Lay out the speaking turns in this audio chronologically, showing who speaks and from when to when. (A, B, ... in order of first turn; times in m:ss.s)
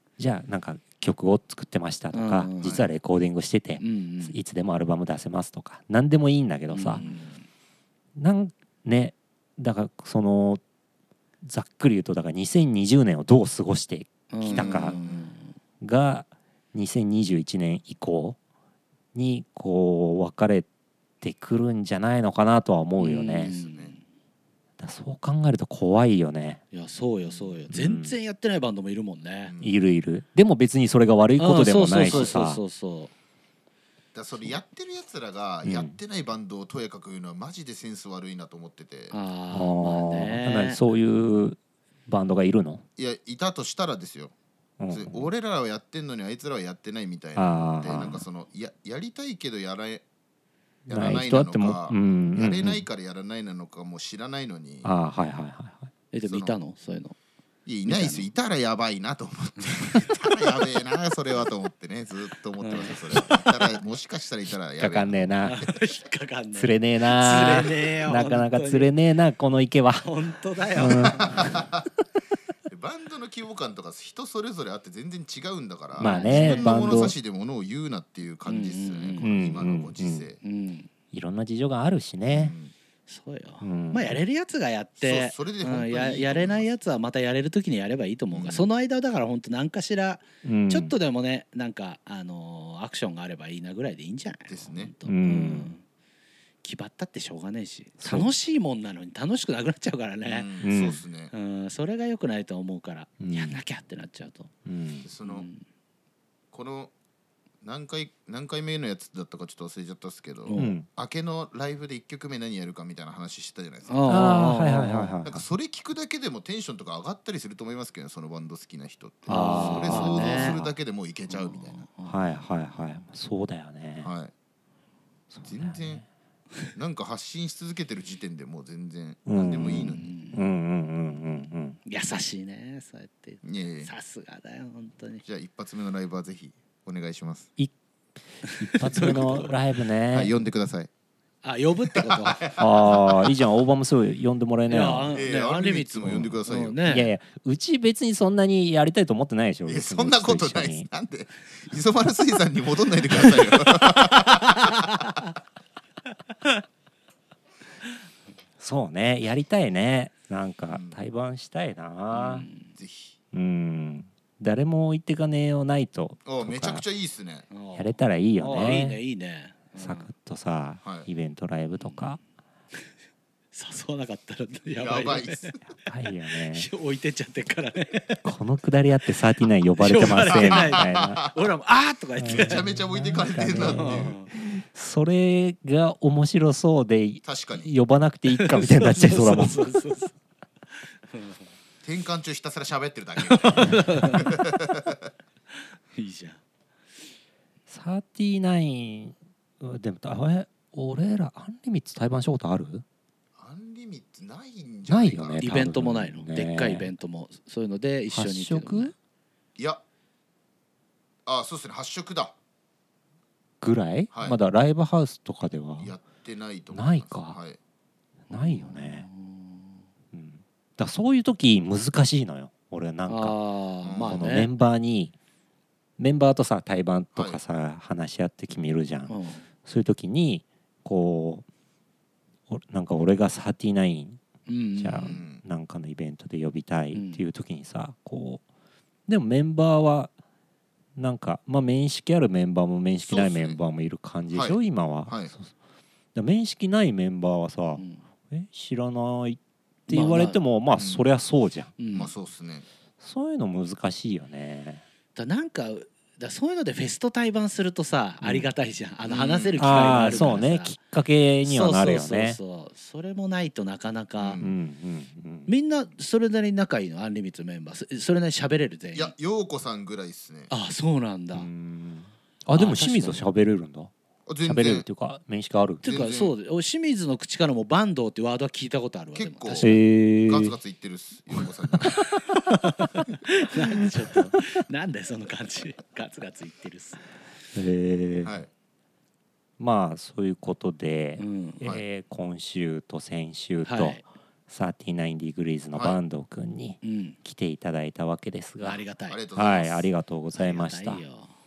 0:00.2-0:07.0 A
0:02.1-0:02.9 B
0:03.8-0:04.4 B
0:06.7-0:07.4 B
0:08.2-0:10.6 A
0:11.4-0:15.0 A
0:14.3-0:15.5 B
0:14.5-0:15.2 C
0:15.8-0:18.4 A
0:19.1-0:20.7 A
0:21.2-0:23.5 A
0:23.0-0:24.0 B
0:23.4-0:24.0 C
0:24.8-0:26.6 A
0:26.7-0:29.5 B
0:27.7-0:28.2 A
0:29.4-0:29.8 C
0:29.6-0:32.6 A
0:31.4-0:33.1 B
0:32.0-0:32.4 C
0:34.1-0:39.1 C
0:35.6-0:36.0 A
0:39.1-0:40.8 B
0:39.5-0:42.8 A
0:43.0-0:44.3 C
0:44.8-0:45.3 A
0:44.9-0:50.0 C
0:47.4-0:48.2 A
0:50.9-0:52.8 A
0:50.9-0:54.9 C
0:54.8-0:55.9 A
0:56.1-0:57.1 B
0:56.2-0:56.6 C
0:57.6-1:05.6 C
0:57.9-0:58.2 B
1:02.6-1:03.4 B
1:04.8-1:05.6 A
1:05.4-1:08.9 B
1:06.6-1:10.1 A
1:10.0-1:11.6 B
1:10.8-1:11.6 A
1:11.2-1:11.8 C
1:12.7-1:20.4 C
1:16.0-1:17.1 A
1:16.0-1:16.8 B
1:18.4-1:19.3 B
1:19.2-1:20.3 A
1:20.4-1:20.9 B
1:21.1-1:22.6 A
1:22.3-1:22.7 C
1:23.1-1:35.8 B
1:23.6-1:24.2 A
1:25.0-1:26.7 C
1:28.3-1:28.7 C
1:30.4-1:30.9 A
1:34.5-1:34.9 C
1:35.1-1:35.7 A
1:36.6-1:40.5 B
1:38.0-1:38.3 A
1:40.2-1:41.3 C
1:40.6-1:41.0 A
1:41.3-1:44.5 B
1:43.2-1:43.6 A
1:44.6-1:45.1 A
1:45.0-1:45.5 C
1:45.2-1:45.6 B
1:46.5-1:46.9 C
1:47.6-1:54.1 C
1:50.4-1:50.8 B
1:50.6-1:50.9 A
1:53.9-1:55.1 B
1:54.1-1:55.4 A
1:55.2-2:01.8 C
1:59.3-2:00.6 B
1:59.3-2:00.7 A
2:01.3-2:02.5 B
2:02.1-2:04.1 A
2:04.0-2:04.3 C
2:05.3-2:06.1 A
2:05.4-2:06.0 C
2:06.8-2:10.1 C
2:09.3-2:11.8 A
2:09.8-2:10.4 B
2:11.8-2:15.2 B
2:13.4-2:13.9 C
2:15.2-2:17.5 C
2:18.4-2:20.3 A
2:18.4-2:19.6 B
2:18.9-2:19.5 C
2:20.1-2:20.9 C
2:21.4-2:22.6 B
2:21.9-2:23.3 C
2:22.6-2:25.1 A
2:24.7-2:27.1 B
2:25.1-2:26.8 C
2:26.9-2:30.9 A
2:29.6-2:34.9 C
2:33.8-2:35.3 B
2:38.6-2:42.5 A
2:40.7-2:41.0 C
2:42.1-2:42.7 B
2:42.8-2:43.2 C
2:43.3-2:46.8 A
2:46.2-2:47.5 C
2:47.5-2:50.1 B
2:47.8-2:49.0 A
2:49.8-2:52.2 A
2:51.8-2:52.1 B
2:53.5-2:55.6 B
2:54.8-2:55.6 C
2:55.7-2:56.7 A
2:56.5-2:58.3 B
2:58.2-3:01.2 A
2:59.8-3:02.6 B
3:00.3-3:01.4 C
3:02.2-3:09.7 A
3:02.3-3:04.2 C
3:03.6-3:04.3 B
3:07.2-3:07.7 C
3:08.3-3:10.1 B
3:10.9-3:11.5 B
3:11.8-3:15.0 C
3:13.3-3:14.4 B
3:15.9-3:16.4 B
3:17.7-3:22.8 A
3:23.4-3:25.5 C
3:24.9-3:26.9 A
3:25.4-3:28.9 B
3:28.1-3:28.9 A
3:29.6-3:29.8 C
3:31.2-3:32.4 C
3:33.6-3:35.9 A
3:34.1-3:34.4 C
3:35.8-3:37.6 C
3:36.7-3:37.4 A
3:38.3-3:39.1 A
3:38.3-3:39.8 B
3:40.1-3:43.4 A
3:43.1-3:44.5 B
3:43.8-3:44.3 C
3:44.0-3:45.1 A
3:46.0-3:51.4 A
3:47.1-3:47.4 C
3:49.1-3:49.4 B
3:52.5-3:54.2 A
3:54.5-3:55.2 B
3:54.8-3:58.4 A
3:55.0-3:55.4 C
3:56.9-3:57.2 B
3:59.1-4:00.1 A
4:01.0-4:05.5 A
4:03.0-4:03.6 C
4:04.3-4:05.3 C
4:06.1-4:11.7 A
4:07.8-4:08.0 B
4:09.9-4:10.4 B
4:10.8-4:11.1 C
4:11.8-4:12.1 B
4:11.9-4:12.6 C
4:13.0-4:14.8 A
4:15.2-4:20.8 B
4:18.2-4:18.5 A
4:19.1-4:20.2 C
4:19.6-4:22.4 A
4:21.4-4:24.4 B
4:24.2-4:24.6 C
4:24.4-4:25.5 A
4:25.5-4:29.1 B
4:28.9-4:30.5 C
4:30.5-4:31.5 B
4:31.3-4:33.9 A
4:32.5-4:33.2 B
4:34.3-4:34.9 C
4:34.4-4:35.8 A
4:35.8-4:36.3 C
4:35.8-4:39.8 B
4:39.1-4:42.1 C
4:39.6-4:40.6 A
4:42.5-4:47.0 B
4:47.6-4:48.3 A
4:48.2-4:48.5 C
4:49.6-4:58.8 A
4:51.2-4:51.6 B
4:53.6-4:54.0 B
4:56.8-4:57.2 B
4:58.6-4:59.2 B
4:59.1-4:59.9 C
4:59.4-5:01.0 A
5:00.3-5:01.3 B